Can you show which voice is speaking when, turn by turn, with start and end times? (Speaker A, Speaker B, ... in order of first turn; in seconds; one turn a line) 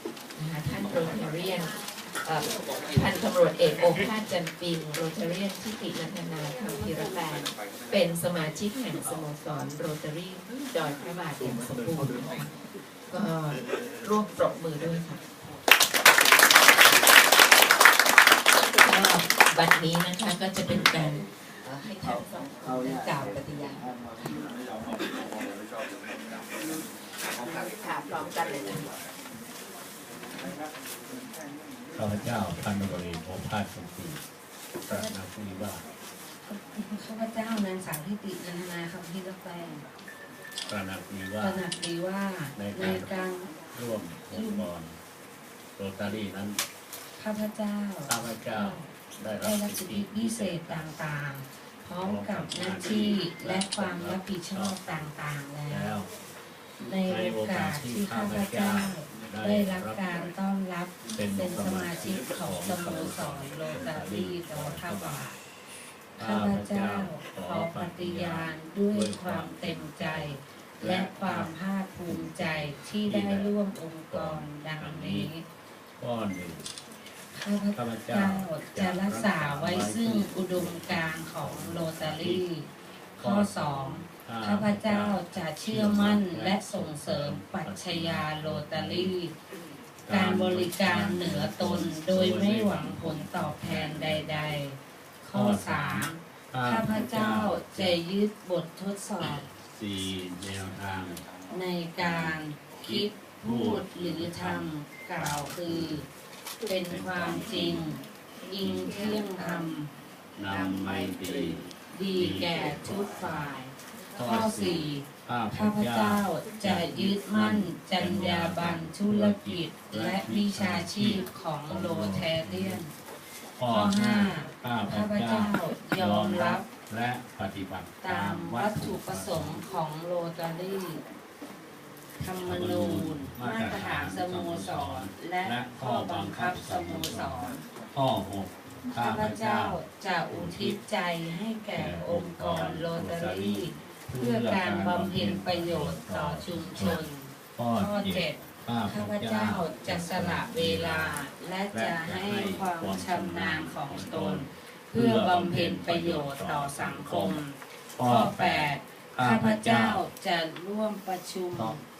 Speaker A: 0.3-12.6
Speaker A: 13.1-15.5
Speaker A: 18.8-24.4
Speaker A: 27.4-28.9
Speaker B: 31.9-34.2
Speaker B: 34.8-35.8
Speaker C: 34.9-35.1
Speaker C: 36.5-39.9
Speaker B: 40.7-41.6
Speaker C: 41.4-43.5
Speaker B: 42.5-43.1
Speaker B: 43.7-45.0
Speaker C: 44.3-44.7
Speaker B: 45.8-46.6
Speaker C: 47.2-56.0
Speaker B: 48.1-50.8
Speaker B: 52.0-55.1
Speaker B: 55.7-56.1
Speaker C: 56.8-65.4
Speaker B: 57.0-60.0
Speaker B: 61.1-65.2
Speaker C: 66.2-75.4
Speaker B: 66.2-73.5
Speaker B: 74.1-75.3
Speaker B: 76.0-76.7
Speaker C: 77.3-82.7
Speaker B: 77.7-82.4
Speaker B: 83.2-89.1
Speaker C: 83.2-89.3
Speaker B: 90.0-94.6
Speaker C: 90.1-99.5
Speaker B: 95.3-98.0
Speaker B: 99.2-101.2
Speaker C: 101.5-106.1
Speaker B: 102.0-106.0
Speaker C: 106.7-109.9
Speaker B: 106.8-107.8
Speaker B: 108.6-109.0
Speaker B: 110.4-111.6
Speaker C: 111.9-122.9
Speaker B: 112.1-113.5
Speaker B: 114.2-122.8
Speaker B: 123.6-129.6
Speaker C: 123.7-126.7
Speaker C: 128.0-131.0
Speaker C: 132.2-137.6
Speaker B: 132.4-139.8
Speaker C: 138.9-161.8
Speaker B: 140.3-140.8
Speaker B: 141.7-147.0
Speaker B: 147.6-157.4
Speaker B: 157.9-160.0
Speaker B: 161.5-161.8